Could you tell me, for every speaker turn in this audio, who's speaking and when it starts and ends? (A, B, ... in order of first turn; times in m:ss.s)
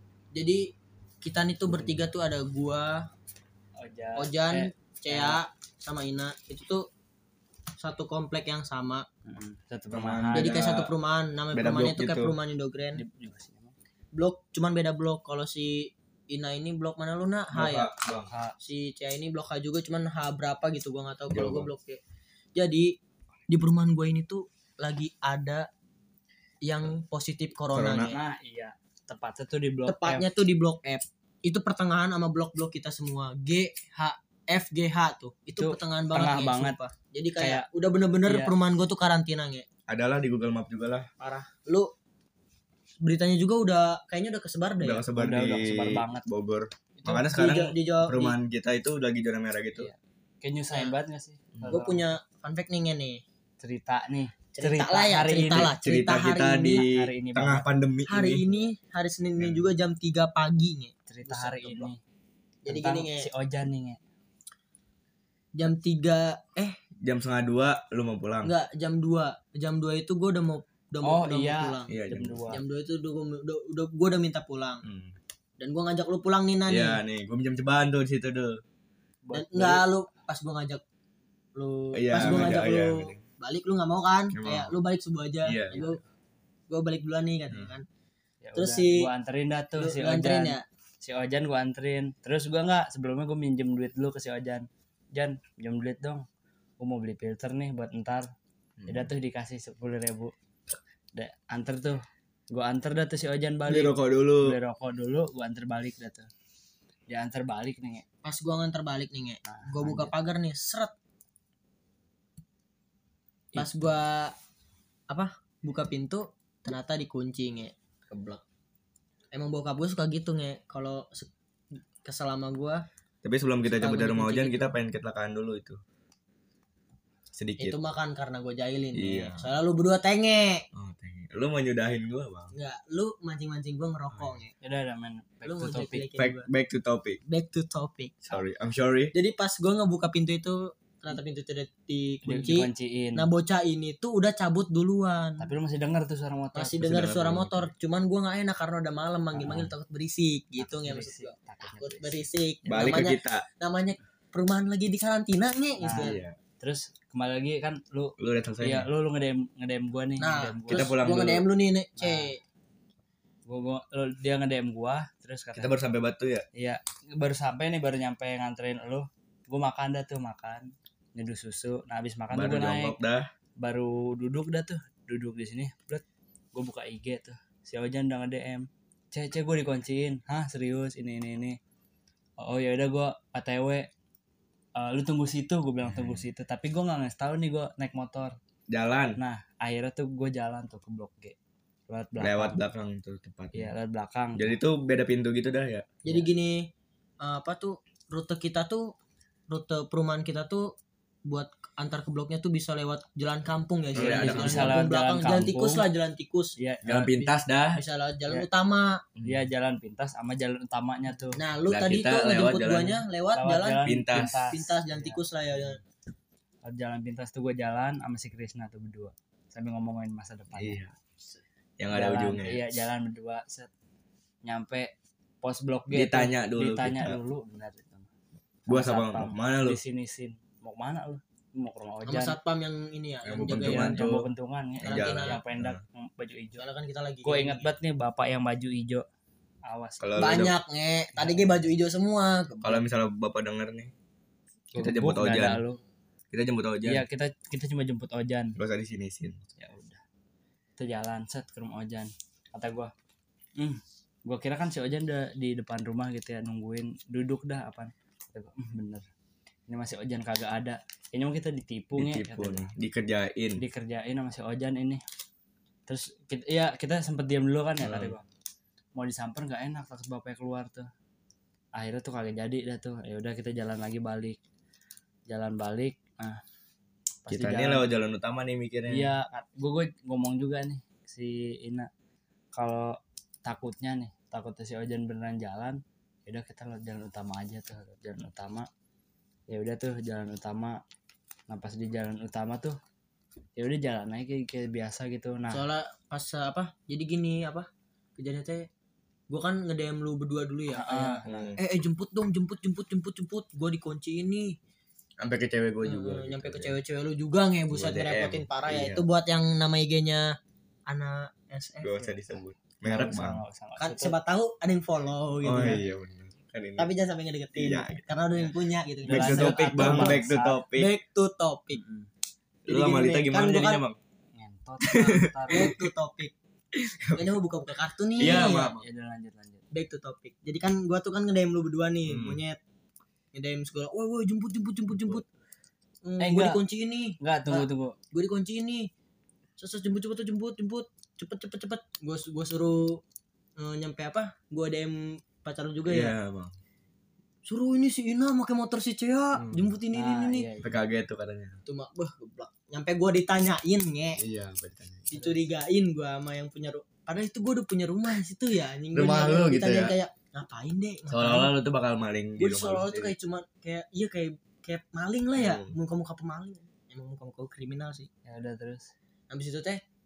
0:00.3-0:00.7 A
0:01.2-0:03.1 A
0:03.8-0:05.4 B
0:04.2-0:06.9 A
0:07.8-0:09.0 A
0:09.3-0:10.7 B
0:09.9-0:10.9 C
0:10.4-0:13.0 A
0:11.5-0:12.4 C
0:13.0-0:13.7 B
0:14.1-0:17.9 A
0:17.5-0:18.3 C
0:18.1-0:18.6 B
0:18.6-0:22.0 A
0:21.3-0:21.7 C
0:22.6-0:22.9 A
0:23.5-0:25.7 A
0:26.6-0:28.2 A
0:27.7-0:28.2 C
0:28.0-0:30.3 B
0:29.9-0:39.7 A
0:35.6-0:36.8 B
0:37.4-0:37.7 B
0:38.3-0:38.5 B
0:39.9-0:41.1 C
0:41.2-0:41.9 A
0:43.0-0:45.1 A
0:44.8-0:49.9 C
0:45.2-0:46.2 B
0:47.1-0:48.4 A
0:49.8-0:52.2 B
0:51.5-0:51.8 C
0:51.7-0:53.2 A
0:53.6-0:55.7 B
0:54.6-0:56.8 A
0:55.5-0:58.5 C
0:56.8-0:57.7 B
0:58.1-1:01.9 A
0:59.4-0:59.7 C
1:01.1-1:02.0 B
1:02.6-1:03.3 A
1:02.7-1:04.0 B
1:05.6-1:06.8 A
1:07.0-1:08.5 C
1:08.4-1:12.0 A
1:11.0-1:12.6 B
1:11.9-1:12.6 C
1:12.5-1:14.8 A
1:14.8-1:15.2 C
1:15.6-1:17.0 A
1:16.7-1:18.6 C
1:19.2-1:19.8 B
1:19.3-1:20.8 A
1:21.6-1:26.0 A
1:21.9-1:23.2 C
1:22.2-1:22.6 B
1:24.3-1:24.8 C
1:25.4-1:25.8 C
1:25.7-1:26.0 B
1:26.7-1:27.9 A
1:28.4-1:36.3 B
1:28.6-1:29.1 A
1:29.8-1:30.6 A
1:36.8-1:38.3 B
1:38.8-1:39.1 C
1:38.9-1:40.3 B
1:41.2-1:46.3 B
1:43.7-1:44.6 C
1:47.1-1:48.0 B
1:48.2-1:50.9 A
1:49.5-1:50.1 B
1:53.6-1:54.4 A
1:55.1-1:58.4 A
1:59.3-2:02.8 A
2:03.2-2:05.8 C
2:03.6-2:04.7 A
2:07.3-2:07.8 C
2:07.6-2:10.6 A
2:08.9-2:09.5 C
2:10.7-2:12.5 C
2:12.5-2:14.5 A
2:14.1-2:14.4 C
2:14.6-2:16.1 B
2:15.4-2:16.5 A
2:16.2-2:17.2 C
2:17.3-2:18.4 A
2:18.2-2:19.1 C
2:19.1-2:25.5 A
2:22.2-2:23.3 B
2:25.4-2:26.8 B
2:26.6-2:36.2 A
2:26.8-2:27.7 C
2:29.3-2:29.7 B
2:30.6-2:33.0 B
2:32.7-2:33.5 C
2:35.8-2:40.9 B
2:35.9-2:36.4 C
2:38.2-2:38.9 C
2:40.2-2:42.4 A
2:40.7-2:41.4 C
2:42.0-2:42.3 B
2:43.5-2:45.7 B
2:45.6-2:46.4 C
2:46.6-2:53.0 B
2:52.3-2:53.3 C
2:53.6-2:56.0 B
2:56.5-3:01.6 B
3:02.4-3:03.9 B
3:04.8-3:08.4 B
3:05.8-3:06.3 C
3:08.7-3:09.2 C
3:09.2-3:11.4 B
3:11.9-3:12.6 B
3:12.2-3:13.7 C
3:13.5-3:14.6 B
3:14.4-3:15.9 C
3:16.0-3:16.7 A
3:17.2-3:18.9 A
3:19.5-3:20.7 A
3:21.3-3:26.6 A
3:23.9-3:24.8 C
3:24.0-3:25.8 B
3:26.6-3:27.1 B
3:26.8-3:27.8 C
3:27.2-3:29.0 A
3:29.2-3:29.5 C
3:29.2-3:31.4 B
3:31.4-3:33.9 A
3:31.7-3:33.0 C
3:33.3-3:35.2 B
3:33.8-3:34.6 C
3:34.5-3:35.8 A
3:36.6-3:40.9 B
3:40.6-3:40.9 C
3:41.8-3:42.8 C
3:41.9-3:43.7 B
3:44.4-3:48.1 B
3:45.9-3:47.2 C
3:48.7-3:49.8 C
3:48.7-3:52.4 B
3:52.0-3:54.2 A
3:53.2-3:54.3 C
3:53.5-3:56.6 B
3:54.8-3:55.8 C
3:54.8-3:55.4 A
3:56.6-3:57.7 A
3:57.2-3:59.0 B
3:59.6-4:00.1 B
4:00.0-4:00.6 C
4:00.2-4:02.8 A
4:01.2-4:01.7 B
4:02.6-4:03.9 C
4:04.7-4:05.8 B
4:04.8-4:05.6 C
4:06.3-4:07.0 C
4:06.8-4:08.6 B
4:08.6-4:09.4 C
4:09.6-4:10.0 B
4:10.8-4:12.9 B
4:13.6-4:19.0 B
4:19.7-4:22.7 B
4:22.0-4:23.6 C
4:23.6-4:25.0 B
4:25.9-4:28.3 B
4:27.8-4:28.1 C
4:29.0-4:30.9 B
4:31.7-4:34.4 B
4:35.3-4:36.4 B
4:37.2-4:37.9 B
4:37.3-4:39.2 C
4:38.9-4:41.9 B
4:42.5-4:48.7 B
4:49.5-4:50.8 B
4:51.5-4:52.8 B
4:53.6-4:55.6 B
4:55.5-4:58.7 A
4:59.3-5:04.6 A
5:00.7-5:01.5 B
5:01.2-5:01.6 C
5:05.2-5:06.7 C
5:05.8-5:10.4 A
5:07.7-5:09.0 C
5:10.9-5:12.2 A
5:11.8-5:13.4 C
5:12.8-5:14.2 B
5:13.8-5:15.8 A
5:15.4-5:16.9 C
5:16.8-5:20.2 A
5:17.5-5:18.1 C
5:19.1-5:20.6 B
5:19.1-5:20.9 C
5:20.8-5:21.8 A
5:21.7-5:22.1 B
5:22.6-5:24.0 C
5:22.7-5:23.8 A
5:24.4-5:25.7 B
5:24.8-5:25.8 C
5:25.5-5:26.3 A
5:26.7-5:27.3 C
5:27.2-5:28.7 A
5:28.2-5:28.8 C
5:28.2-5:29.6 B
5:29.7-5:32.6 A
5:32.1-5:32.4 C
5:33.3-5:35.2 A
5:36.0-5:38.9 A
5:36.2-5:36.6 B
5:37.2-5:38.0 B
5:39.6-5:43.0 A
5:43.6-5:46.2 A
5:45.9-5:46.5 C
5:47.5-5:50.5 A
5:49.4-5:49.7 C
5:49.9-5:50.8 B
5:50.6-5:51.6 C
5:51.7-5:54.2 A
5:54.2-5:55.2 C
5:55.1-6:01.5 A
5:58.9-6:00.0 C
6:01.1-6:03.1 C
6:02.4-6:08.1 A
6:05.4-6:05.7 C
6:08.2-6:08.9 B
6:09.3-6:09.8 A